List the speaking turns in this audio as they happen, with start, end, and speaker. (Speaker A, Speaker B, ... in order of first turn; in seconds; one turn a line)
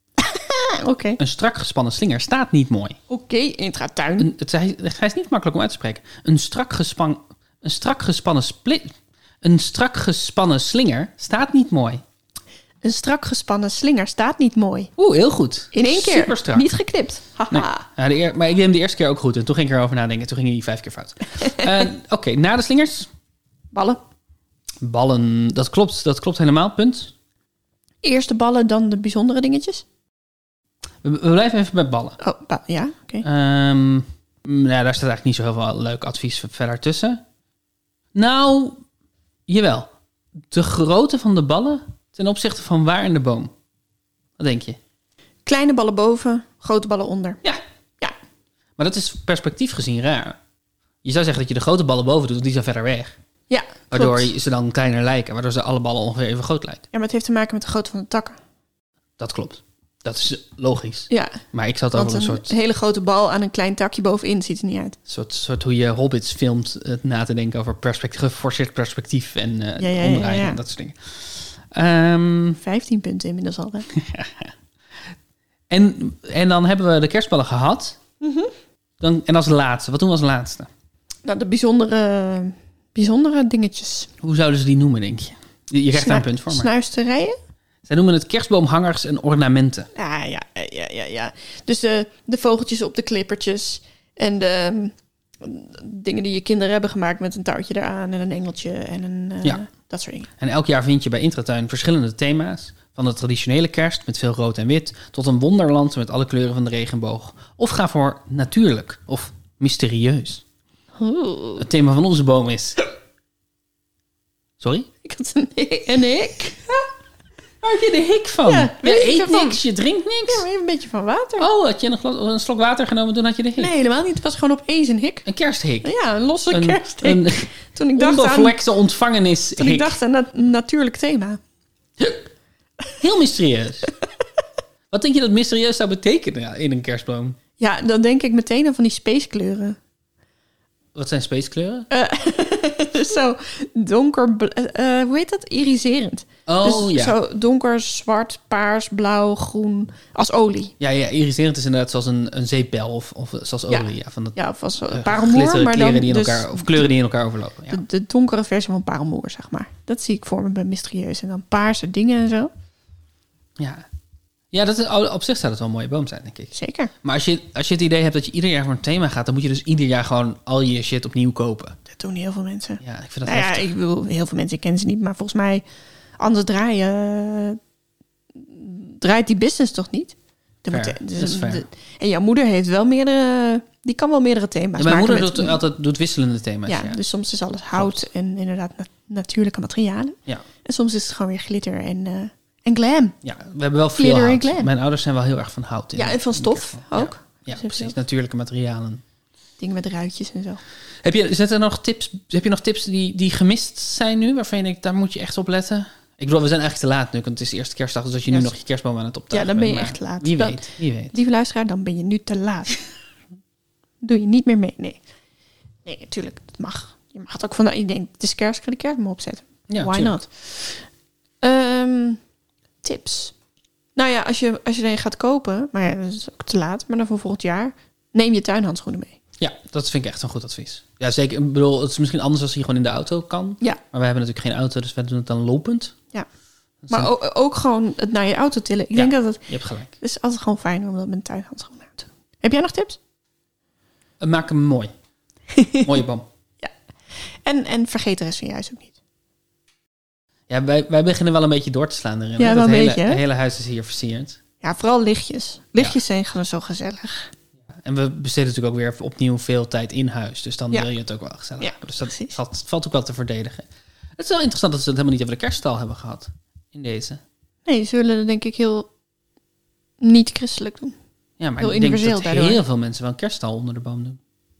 Speaker A: 0.2-1.2
Speaker B: 1.2-3.0
Speaker A: 3.1-4.3
Speaker B: 4.2-12.0
Speaker A: 12.8-14.9
Speaker B: 15.0-16.7
Speaker A: 15.7-17.9
Speaker B: 17.5-23.1
Speaker A: 23.7-24.0
Speaker B: 24.8-27.1
Speaker A: 28.0-29.9
Speaker B: 31.0-32.2
Speaker A: 32.2-33.2
Speaker B: 33.2-37.2
Speaker B: 38.1-38.8
Speaker B: 39.5-39.9
Speaker B: 40.5-43.5
Speaker B: 44.4-44.8
Speaker A: 45.5-47.4
Speaker B: 48.8-50.4
Speaker B: 51.0-53.2
Speaker A: 53.5-54.3
Speaker B: 53.9-56.8
Speaker A: 56.9-58.4
Speaker B: 59.2-62.5
Speaker A: 61.1-61.4
Speaker A: 61.9-65.0
Speaker B: 65.1-72.6
Speaker A: 69.8-70.6
Speaker A: 72.6-73.9
Speaker B: 73.9-74.5
Speaker B: 75.7-78.0
Speaker A: 78.2-78.5
Speaker B: 79.0-80.7
Speaker A: 81.2-84.1
Speaker B: 84.2-86.7
Speaker A: 85.9-87.4
Speaker B: 87.9-89.9
Speaker A: 90.0-100.3
Speaker B: 100.4-110.4
Speaker A: 111.0-111.7
Speaker B: 111.6-112.8
Speaker B: 114.6-114.9
Speaker A: 115.0-116.8
Speaker B: 117.6-120.5
Speaker A: 118.5-119.6
Speaker A: 120.3-121.5
Speaker B: 121.4-123.7
Speaker A: 123.6-125.3
Speaker B: 125.3-125.9
Speaker A: 125.8-128.6
Speaker B: 126.5-130.0
Speaker A: 129.6-131.4
Speaker B: 133.0-133.9
Speaker B: 134.9-137.4
Speaker A: 137.6-139.8
Speaker B: 140.9-141.9
Speaker A: 141.9-150.7
Speaker B: 146.5-147.2
Speaker B: 150.8-154.4
Speaker A: 153.7-156.9
Speaker B: 154.9-157.8
Speaker A: 157.7-162.5
Speaker B: 163.6-163.9
Speaker B: 164.5-171.8
Speaker A: 166.5-166.9
Speaker A: 171.9-175.7
Speaker B: 172.8-173.7
Speaker A: 176.2-177.6
Speaker A: 178.3-185.6
Speaker B: 180.7-181.6
Speaker B: 184.8-187.0
Speaker A: 186.7-193.2
Speaker B: 187.8-188.0
Speaker B: 193.2-199.0
Speaker A: 194.0-194.7
Speaker A: 195.9-197.9
Speaker A: 199.6-200.6
Speaker B: 201.0-211.2
Speaker A: 209.3-212.8
Speaker A: 214.0-215.0
Speaker A: 215.9-220.8
Speaker B: 219.7-220.2
Speaker A: 221.4-222.2
Speaker A: 222.8-223.3
Speaker A: 224.0-229.2
Speaker B: 229.4-235.9
Speaker B: 236.8-237.1
Speaker A: 236.9-243.0
Speaker B: 238.9-239.9
Speaker B: 244.2-244.9
Speaker A: 245.5-245.9
Speaker B: 245.8-246.3
Speaker A: 246.6-248.9
Speaker B: 250.5-254.4
Speaker A: 252.4-253.2
Speaker A: 254.6-257.3
Speaker B: 257.8-267.2
Speaker A: 261.6-262.4
Speaker A: 267.7-268.9
Speaker A: 270.0-270.9
Speaker B: 271.4-274.2
Speaker A: 271.6-272.6